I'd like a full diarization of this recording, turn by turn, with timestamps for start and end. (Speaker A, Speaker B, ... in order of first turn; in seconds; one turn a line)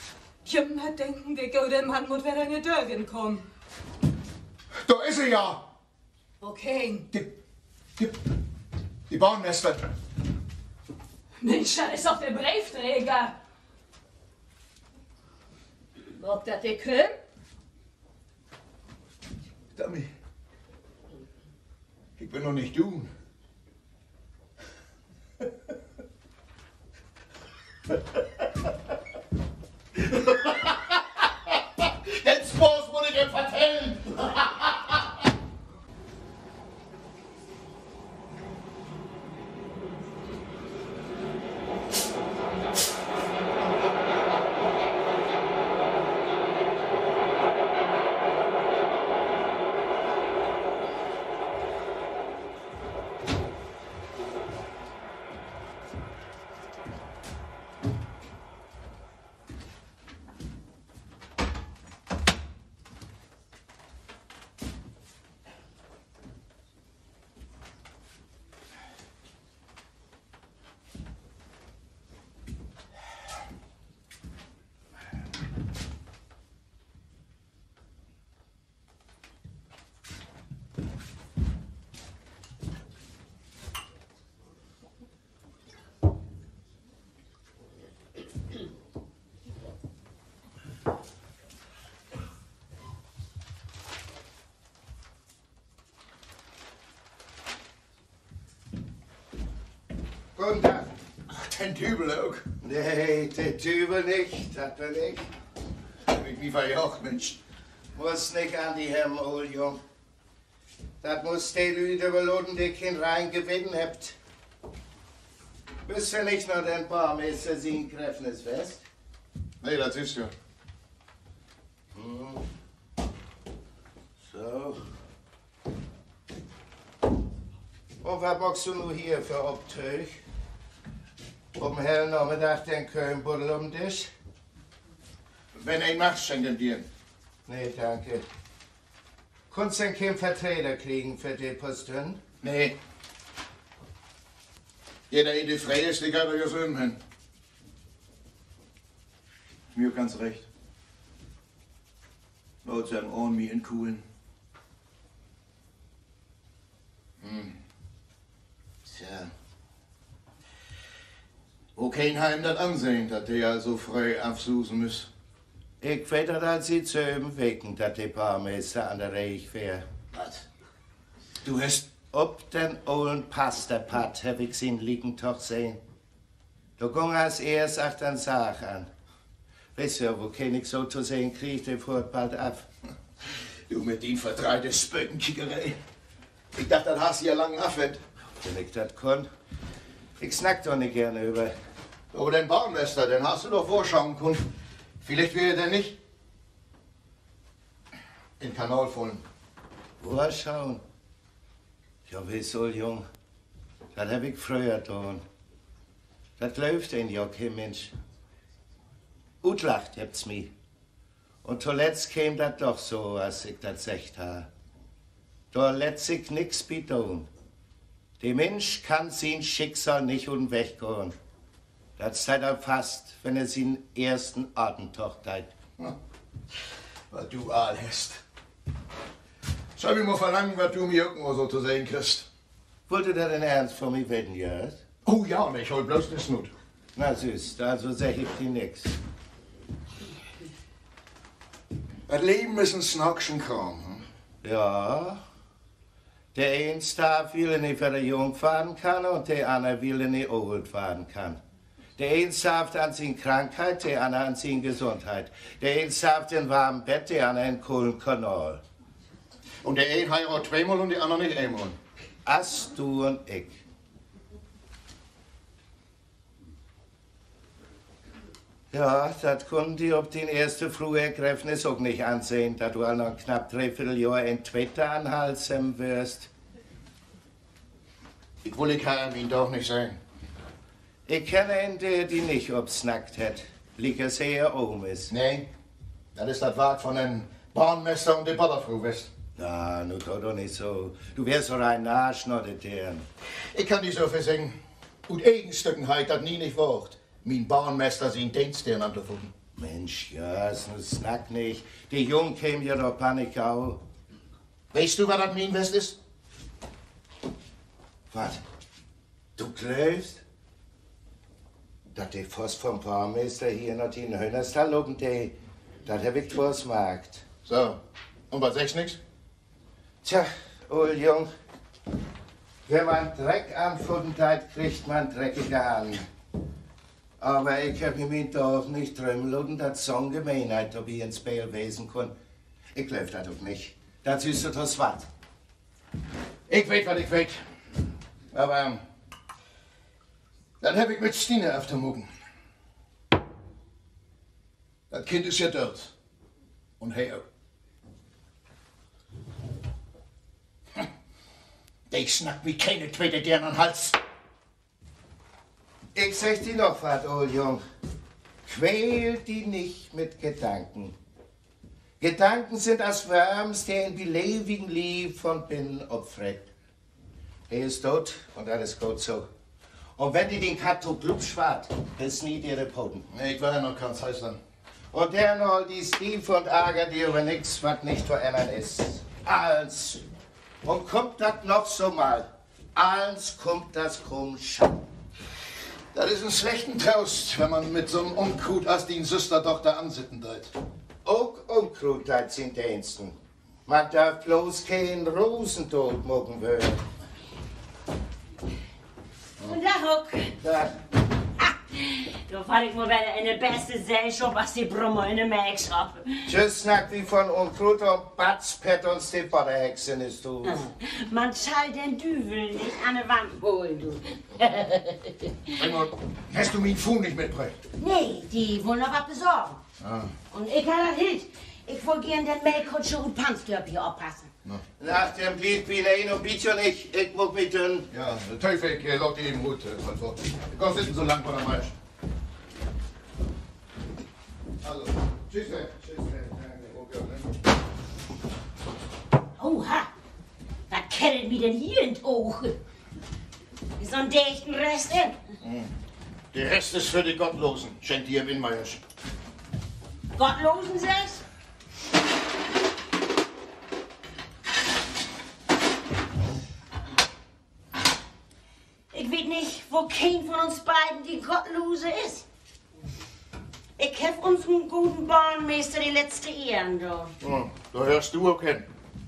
Speaker A: 0.4-3.5
Speaker B: 4.8-5.6
Speaker A: 6.4-7.1
Speaker B: 9.1-9.8
Speaker A: 11.4-13.4
Speaker A: 16.2-17.2
Speaker B: 19.7-20.1
Speaker B: 22.2-23.1
Speaker B: 30.0-34.8
Speaker C: 100.3-100.9
Speaker B: 101.3-102.4
Speaker C: 102.6-105.3
Speaker B: 106.1-107.4
Speaker C: 107.9-109.8
Speaker C: 111.0-114.1
Speaker C: 115.8-118.8
Speaker B: 119.6-120.3
Speaker C: 121.9-122.4
Speaker C: 124.2-124.8
Speaker C: 128.0-130.1
Speaker C: 131.6-134.1
Speaker B: 135.5-136.8
Speaker C: 137.4-138.2
Speaker C: 139.5-142.2
Speaker B: 142.4-142.8
Speaker B: 145.1-147.0
Speaker B: 149.7-150.4
Speaker B: 152.6-154.0
Speaker B: 157.2-157.6
Speaker B: 158.9-159.3
Speaker B: 161.8-165.1
Speaker C: 165.8-169.8
Speaker B: 170.1-170.4
Speaker B: 171.4-171.8
Speaker C: 171.9-175.8
Speaker C: 176.8-178.9
Speaker C: 179.8-182.7
Speaker B: 183.7-185.8
Speaker B: 186.5-188.0
Speaker C: 188.4-189.3
Speaker C: 190.2-191.5
Speaker B: 192.1-194.4
Speaker B: 195.0-195.9
Speaker B: 198.4-199.2
Speaker C: 200.0-200.8
Speaker C: 202.1-203.0
Speaker C: 203.9-205.2
Speaker C: 206.4-207.9
Speaker C: 209.4-210.5
Speaker C: 211.4-214.5
Speaker C: 215.5-217.3
Speaker C: 218.2-221.1
Speaker C: 222.0-225.5
Speaker B: 227.1-228.2
Speaker B: 229.8-232.2
Speaker C: 232.9-234.8
Speaker B: 235.0-236.5
Speaker C: 236.9-238.9
Speaker B: 242.1-244.0
Speaker C: 244.4-245.2
Speaker C: 246.3-251.4
Speaker C: 252.0-258.6
Speaker B: 259.6-261.8
Speaker C: 262.2-263.6
Speaker C: 268.7-276.3
Speaker B: 278.4-280.0
Speaker C: 281.1-285.1
Speaker B: 285.1-285.5
Speaker B: 286.1-289.1
Speaker C: 289.4-293.0
Speaker B: 293.5-294.6
Speaker B: 295.1-299.3
Speaker C: 299.6-303.8
Speaker B: 304.7-306.0
Speaker C: 308.1-308.4
Speaker C: 309.4-310.2
Speaker C: 311.9-315.3
Speaker C: 315.9-317.2
Speaker B: 317.4-317.8
Speaker B: 318.3-319.0
Speaker C: 320.0-321.3
Speaker C: 322.7-326.0
Speaker C: 327.2-332.1
Speaker C: 332.7-335.1
Speaker B: 336.5-337.4
Speaker B: 338.3-338.8
Speaker B: 340.6-342.1
Speaker B: 344.9-345.9
Speaker B: 346.8-347.2
Speaker B: 351.9-354.0
Speaker C: 355.9-357.6
Speaker C: 358.5-360.9
Speaker C: 362.0-366.5
Speaker C: 367.5-369.2
Speaker C: 370.0-373.1
Speaker B: 373.1-374.4
Speaker C: 374.9-380.0
Speaker C: 380.6-384.8
Speaker B: 385.9-390.5
Speaker C: 391.1-393.1
Speaker C: 393.7-396.8
Speaker D: 399.4-400.4
Speaker C: 400.4-400.8
Speaker D: 401.4-406.3
Speaker C: 406.2-410.7
Speaker D: 410.4-415.8
Speaker B: 415.6-417.6
Speaker D: 417.8-419.6
Speaker B: 419.8-420.1
Speaker D: 420.3-424.3
Speaker C: 424.8-427.9
Speaker B: 427.9-431.7
Speaker B: 434.6-437.2
Speaker D: 439.4-439.9
Speaker D: 440.7-442.6
Speaker D: 443.8-445.2
Speaker B: 445.4-445.7
Speaker B: 446.3-448.8
Speaker D: 450.1-451.2
Speaker D: 458.9-462.2
Speaker D: 463.8-467.1
Speaker B: 467.2-468.6